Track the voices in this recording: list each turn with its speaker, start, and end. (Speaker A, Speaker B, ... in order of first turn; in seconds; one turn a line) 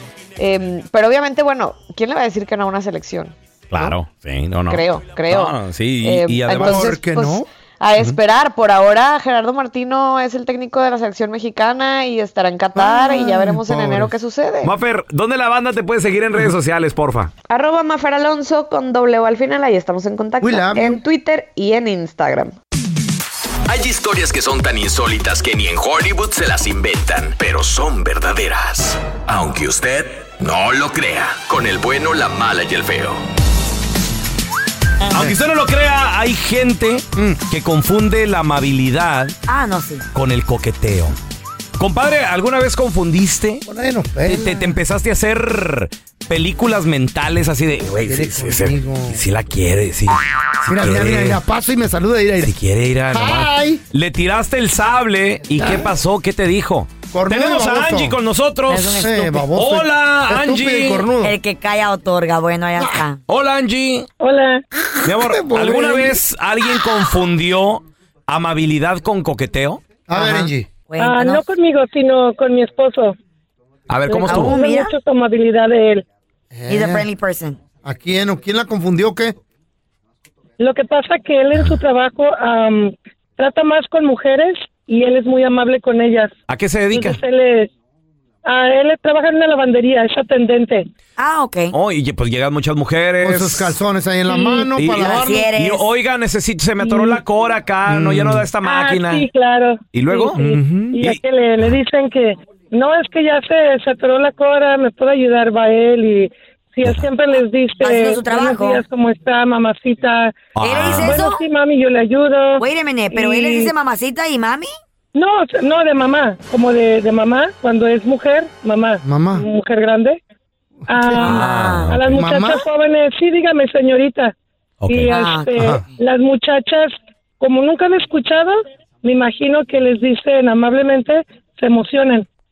Speaker A: 0.4-3.9
Speaker B: 3.7-6.9
Speaker A: 4.7-14.7
Speaker C: 6.5-8.2
Speaker C: 12.7-14.1
Speaker B: 14.6-17.3
Speaker A: 17.5-22.6
Speaker C: 20.4-21.0
Speaker D: 23.6-33.2
Speaker B: 35.1-39.4
Speaker E: 39.5-40.0
Speaker B: 40.1-41.1
Speaker B: 41.8-43.6
Speaker C: 43.6-44.8
Speaker B: 44.2-51.4
Speaker C: 48.0-49.2
Speaker C: 50.6-52.5
Speaker B: 52.4-61.1
Speaker C: 53.1-53.8
Speaker C: 55.6-55.9
Speaker C: 57.1-58.2
Speaker E: 58.7-59.5
Speaker C: 59.0-61.4
Speaker E: 61.2-63.2
Speaker B: 63.3-64.1
Speaker F: 64.2-64.6
Speaker C: 65.0-66.2
Speaker B: 65.0-69.8
Speaker C: 70.1-70.7
Speaker E: 70.1-71.4
Speaker F: 71.0-73.2
Speaker B: 73.9-74.6
Speaker F: 74.0-76.0
Speaker E: 74.3-74.9
Speaker C: 76.5-77.1
Speaker E: 76.7-77.6
Speaker C: 77.8-79.3
Speaker F: 80.6-86.3
Speaker B: 86.5-87.2
Speaker F: 86.9-87.7
Speaker F: 88.5-90.9
Speaker E: 91.2-91.7
Speaker B: 91.7-93.8
Speaker C: 93.2-95.5
Speaker F: 94.3-94.7
Speaker B: 94.8-99.2
Speaker E: 94.9-95.9
Speaker F: 96.8-97.2
Speaker C: 97.8-98.5
Speaker F: 98.6-113.7
Speaker B: 99.9-100.4
Speaker C: 100.3-101.0
Speaker B: 100.9-101.8
Speaker E: 107.8-108.8
Speaker B: 110.5-111.2
Speaker E: 110.6-111.4
Speaker E: 112.6-114.7
Speaker F: 115.1-120.2
Speaker C: 119.0-119.5
Speaker F: 120.9-124.3
Speaker E: 121.2-122.0
Speaker B: 121.2-122.2
Speaker C: 122.1-122.7
Speaker B: 124.8-125.1
Speaker F: 124.8-132.3
Speaker E: 125.1-125.5
Speaker C: 125.5-125.8